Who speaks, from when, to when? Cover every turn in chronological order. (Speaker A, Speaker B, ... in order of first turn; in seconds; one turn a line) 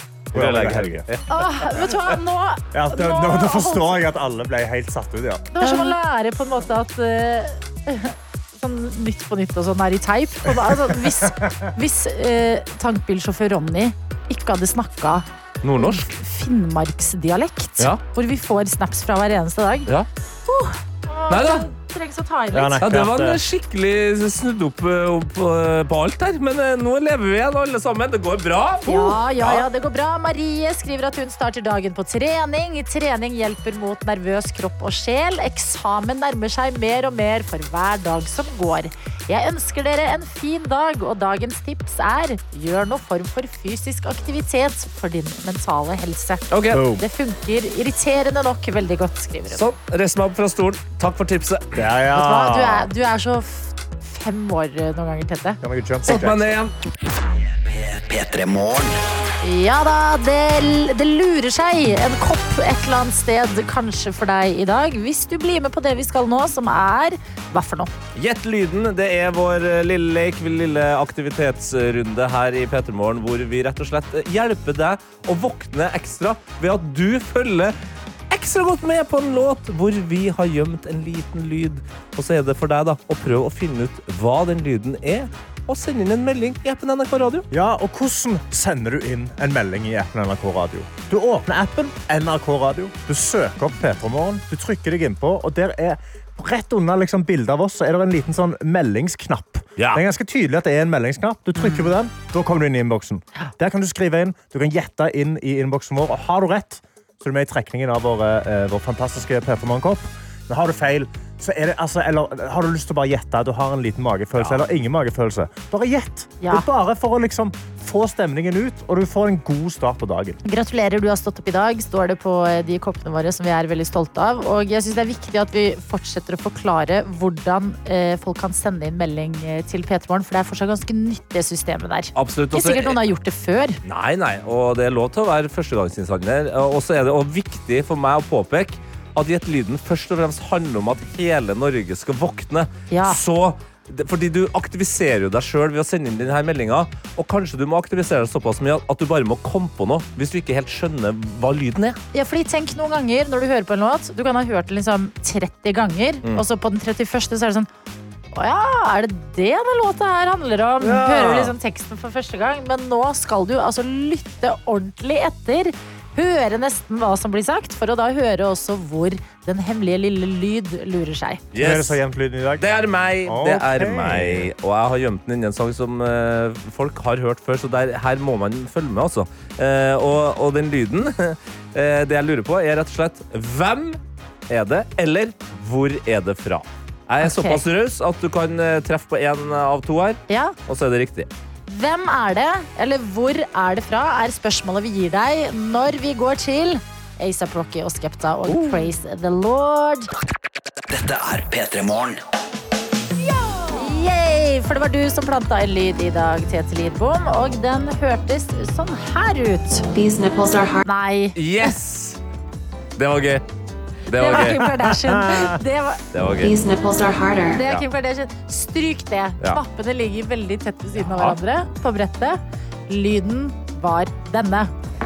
Speaker A: 0.3-1.1
Speaker B: 0.3-1.9
Speaker C: 1.3-3.9
Speaker A: 2.7-5.6
Speaker C: 5.5-15.2
Speaker A: 10.6-11.5
Speaker B: 15.6-16.1
Speaker C: 15.8-19.9
Speaker C: 20.5-22.8
Speaker B: 21.3-21.7
Speaker A: 22.5-23.4
Speaker B: 22.8-29.6
Speaker C: 28.8-49.6
Speaker B: 46.5-46.8
Speaker A: 46.7-47.0
Speaker B: 49.5-51.8
Speaker A: 51.8-52.9
Speaker C: 52.1-56.2
Speaker A: 55.6-56.5
Speaker B: 56.0-56.7
Speaker D: 57.7-59.0
Speaker C: 59.4-67.9
Speaker B: 68.1-77.7
Speaker B: 78.3-87.5
Speaker A: 87.5-120.4
Speaker B: 99.8-100.0
Speaker C: 101.6-101.9
Speaker B: 114.3-114.7
Speaker C: 120.4-133.8
Speaker B: 132.1-133.0
Speaker B: 133.8-152.0
Speaker C: 142.9-143.2
Speaker C: 152.1-157.7
Speaker C: 158.3-171.4
Speaker B: 160.8-161.5
Speaker B: 171.5-172.0
Speaker A: 171.5-174.5
Speaker B: 172.6-191.3
Speaker C: 187.2-187.6
Speaker C: 190.3-190.6
Speaker C: 191.7-200.1
Speaker B: 198.5-198.8
Speaker D: 200.9-202.2
Speaker C: 203.7-209.9
Speaker E: 209.9-210.8
Speaker C: 210.8-211.7
Speaker B: 211.3-212.2
Speaker B: 213.0-213.4
Speaker B: 214.1-214.7
Speaker C: 214.1-216.0
Speaker A: 214.9-215.5
Speaker B: 216.1-216.5
Speaker E: 216.4-217.6
Speaker C: 217.5-224.7
Speaker B: 221.0-221.4